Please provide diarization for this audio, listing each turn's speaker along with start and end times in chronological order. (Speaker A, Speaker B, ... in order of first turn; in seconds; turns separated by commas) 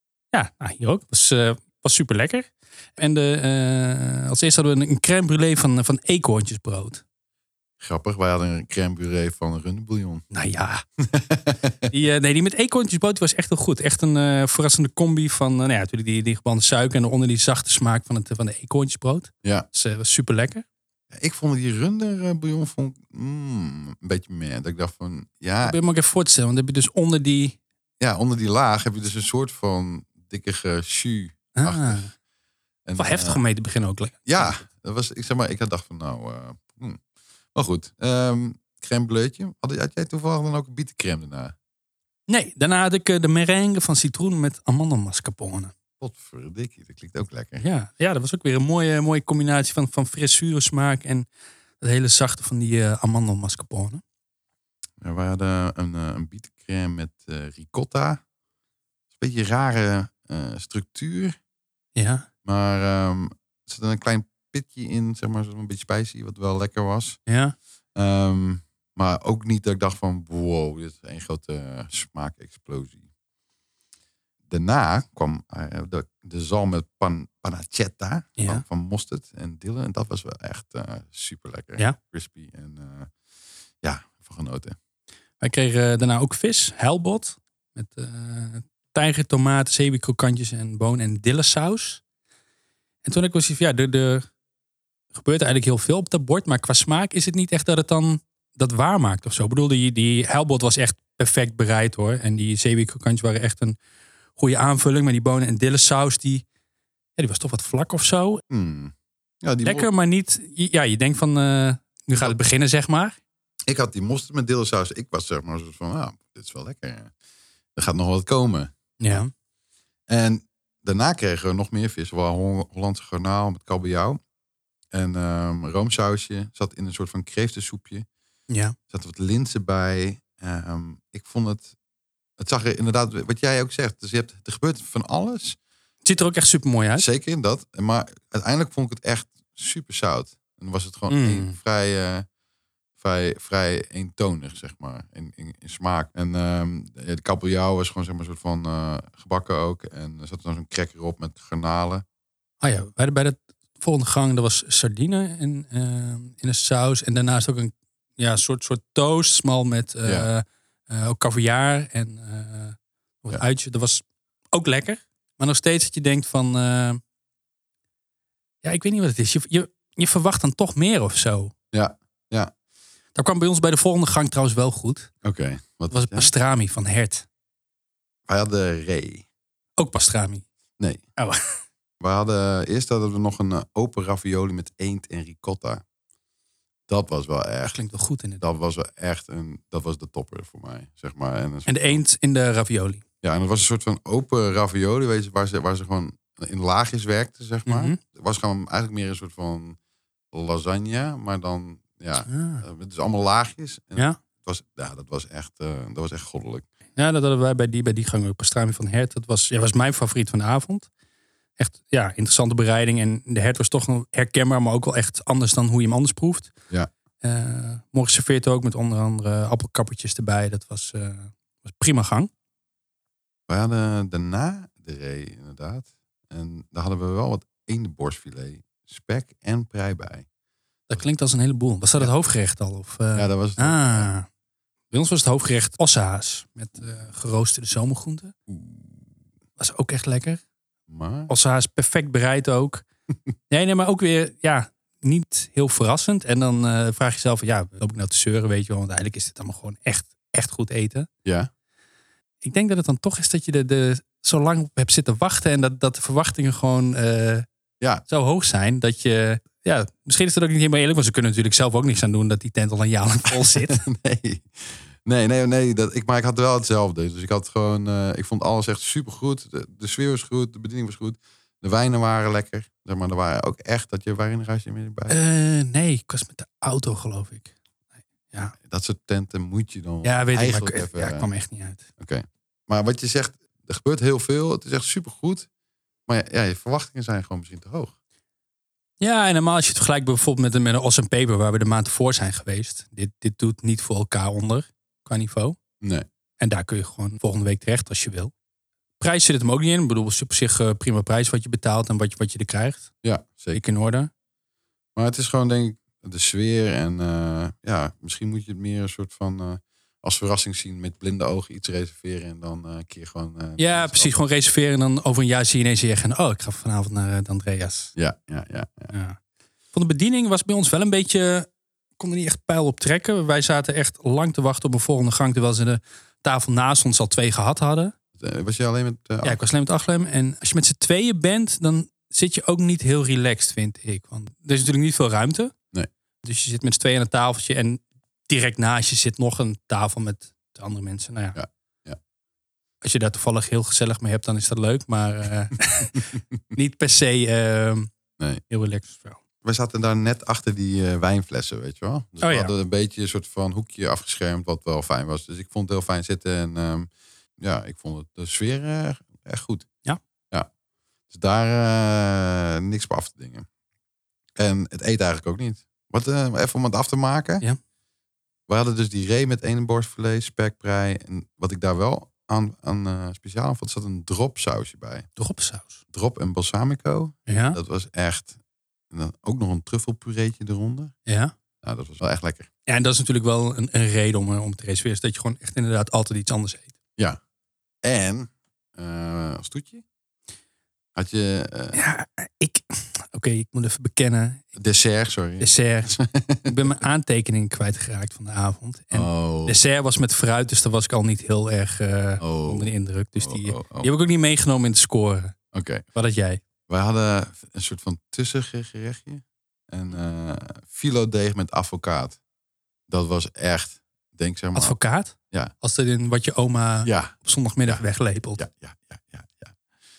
Speaker A: 0.3-7.0, Speaker B: 7.8-10.3, Speaker A: 10.3-10.8, Speaker B: 11.0-11.8, Speaker A: 11.9-20.6, Speaker B: 21.1-25.8, Speaker A: 25.6-27.6, Speaker B: 28.0-32.1, Speaker A: 31.5-32.1, Speaker B: 32.9-33.4, Speaker A: 33.0-34.6, Speaker B: 34.2-37.0, Speaker B: 37.5-41.5, Speaker A: 42.3-45.7, Speaker B: 46.0-47.6, Speaker A: 47.6-51.2, Speaker A: 51.8-54.0, Speaker B: 55.0-58.2, Speaker B: 59.2-61.4, Speaker A: 61.9-62.3, Speaker B: 62.4-67.2, Speaker A: 67.3-67.5, Speaker B: 67.9-73.0, Speaker B: 74.5-83.1, Speaker A: 78.4-78.6, Speaker B: 83.8-84.8, Speaker A: 85.4-92.0, Speaker A: 93.0-94.3, Speaker A: 95.1-103.8, Speaker A: 104.4-106.4, Speaker A: 107.2-108.4, Speaker B: 108.5-109.9, Speaker A: 109.6-113.2, Speaker B: 113.7-117.1, Speaker B: 117.8-119.2, Speaker A: 119.0-119.3, Speaker B: 120.1-124.2, Speaker B: 124.9-128.1, Speaker A: 128.5-128.8, Speaker B: 128.9-131.7, Speaker B: 132.4-135.6, Speaker A: 136.1-137.1, Speaker B: 137.0-142.2, Speaker A: 141.1-141.6, Speaker B: 143.0-152.0, Speaker A: 152.6-167.0, Speaker B: 160.1-160.3, Speaker A: 168.6-171.5, Speaker B: 171.7-172.5, Speaker A: 173.1-175.1, Speaker B: 175.2-176.3, Speaker A: 175.9-177.2, Speaker B: 178.3-179.2, Speaker A: 179.8-180.4, Speaker A: 181.2-181.5, Speaker B: 182.0-185.8, Speaker B: 186.9-187.8, Speaker A: 187.7-188.4, Speaker B: 188.4-192.0, Speaker A: 191.7-193.0, Speaker B: 193.2-199.8, Speaker A: 197.7-198.0, Speaker B: 200.3-206.7, Speaker A: 202.2-202.6, Speaker A: 206.9-210.9, Speaker A: 211.6-216.5, Speaker A: 217.2-222.3, Speaker B: 223.5-230.2, Speaker A: 230.9-234.3, Speaker B: 233.1-234.1, Speaker A: 234.9-238.3, Speaker B: 238.5-239.1, Speaker A: 239.6-240.4, Speaker B: 240.9-241.3, Speaker A: 241.3-242.8, Speaker A: 243.5-251.1, Speaker B: 251.2-251.5, Speaker A: 252.4-257.5, Speaker A: 258.1-263.8, Speaker B: 263.5-275.1, Speaker A: 275.1-277.5, Speaker B: 278.6-281.3, Speaker A: 280.0-281.9, Speaker B: 282.0-285.5, Speaker B: 286.1-287.9, Speaker A: 289.0-295.6, Speaker B: 295.8-296.1, Speaker A: 296.4-298.3, Speaker A: 299.0-302.9, Speaker B: 303.0-303.6, Speaker A: 303.5-304.1, Speaker B: 304.9-314.1, Speaker A: 313.6-317.9, Speaker B: 317.9-318.9, Speaker A: 318.9-319.2, Speaker A: 319.7-327.9, Speaker B: 328.2-329.4, Speaker A: 329.2-335.5, Speaker A: 336.2-341.4, Speaker B: 341.4-342.0, Speaker A: 342.8-347.9, Speaker A: 348.5-349.2, Speaker B: 349.4-359.7, Speaker A: 352.2-352.5, Speaker B: 361.1-363.4, Speaker B: 364.4-367.4, Speaker B: 368.5-375.1, Speaker A: 375.2-375.8, Speaker B: 375.9-378.4, Speaker A: 377.3-377.6, Speaker B: 378.9-380.9, Speaker A: 381.1-381.3, Speaker B: 381.6-382.5, Speaker A: 382.7-386.7, Speaker B: 387.8-389.8, Speaker B: 390.9-391.8, Speaker A: 391.7-394.5, Speaker B: 394.6-396.5, Speaker A: 395.4-405.4, Speaker B: 398.9-399.6, Speaker B: 402.2-403.9, Speaker B: 405.5-405.9, Speaker A: 405.9-406.4, Speaker B: 406.7-412.2, Speaker B: 412.9-414.8, Speaker A: 414.6-418.4, Speaker B: 416.9-417.1, Speaker B: 418.4-419.6